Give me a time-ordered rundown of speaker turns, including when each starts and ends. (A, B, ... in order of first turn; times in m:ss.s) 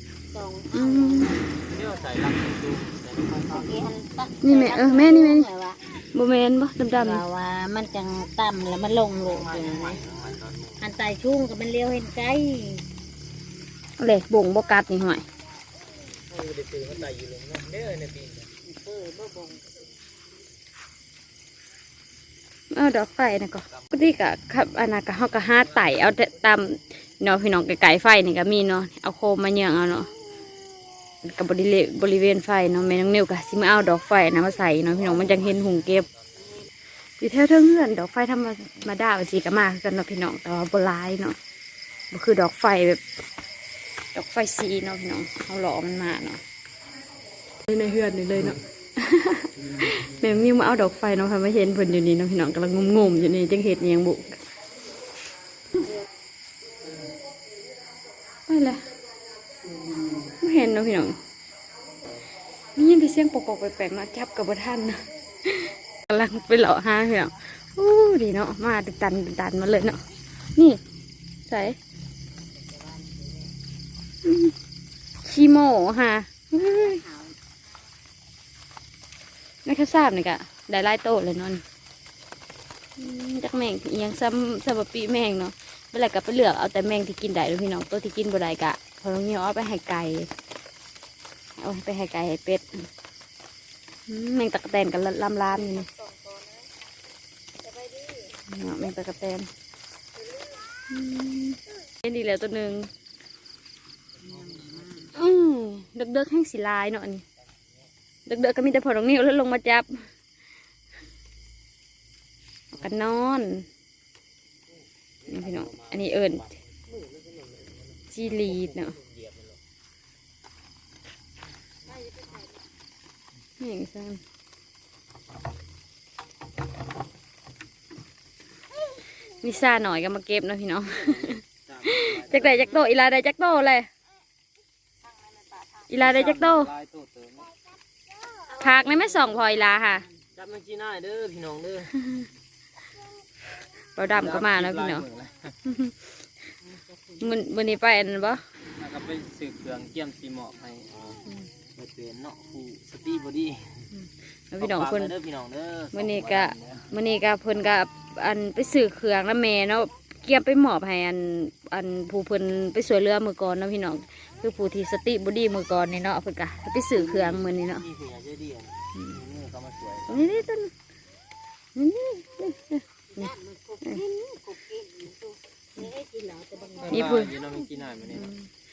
0:00.3-0:01.4 A
0:00.7-0:01.4 B
0:01.6-0:03.8 C
0:03.5-0:05.8 A
0:04.4-0:05.5 B
0:06.1-0:07.2 B
0:06.9-0:10.0 A
0:09.1-0:10.8 C
0:10.8-0:12.8 A
0:14.0-0:15.2 B
0:16.3-0:18.5 C
0:18.6-0:19.8 A
0:22.7-0:30.1 B
0:31.2-0:36.1 B
0:34.9-0:36.5 C
0:37.2-0:41.4 B
0:42.1-0:43.0 B
0:44.1-0:46.4 B
0:47.7-0:54.4 B
0:58.5-0:58.8 B
1:00.2-1:01.2 B
1:02.8-1:10.0 B
1:10.5-1:10.8 B
1:11.5-1:11.8 B
1:12.3-1:13.5 A
1:14.2-1:14.5 B
1:15.2-1:17.0 B
1:16.5-1:17.4 A
1:19.6-1:21.6 B
1:23.0-1:30.3 B
1:31.6-1:32.9 B
1:34.1-1:35.9 B
1:38.3-1:39.5 B
1:40.9-1:42.9 B
1:44.4-1:44.9 A
1:45.1-1:47.2 B
1:48.2-1:50.0 B
1:52.7-1:53.7 B
1:55.2-1:56.2 C
1:55.3-1:56.5 B
1:56.9-1:57.8 C
1:58.1-1:58.9 B
1:58.5-1:59.6 C
2:03.6-2:04.2 B
2:09.4-2:13.9 B
2:10.8-2:12.9 C
2:15.9-2:16.7 B
2:15.9-2:17.5 C
2:18.5-2:20.0 B
2:20.3-2:22.1 C
2:24.0-2:25.0 B
2:24.1-2:25.6 C
2:25.7-2:26.0 B
2:26.7-2:27.3 A
2:27.2-2:28.4 B
2:28.8-2:31.2 C
2:31.7-2:33.9 C
2:33.9-2:35.1 B
2:34.6-2:36.9 C
2:35.9-2:47.8 B
2:46.9-2:50.4 C
2:50.1-2:50.7 B
2:51.8-2:53.3 B
2:53.1-2:57.2 A
2:56.8-2:58.4 C
2:56.9-2:57.4 B
2:58.1-2:58.4 B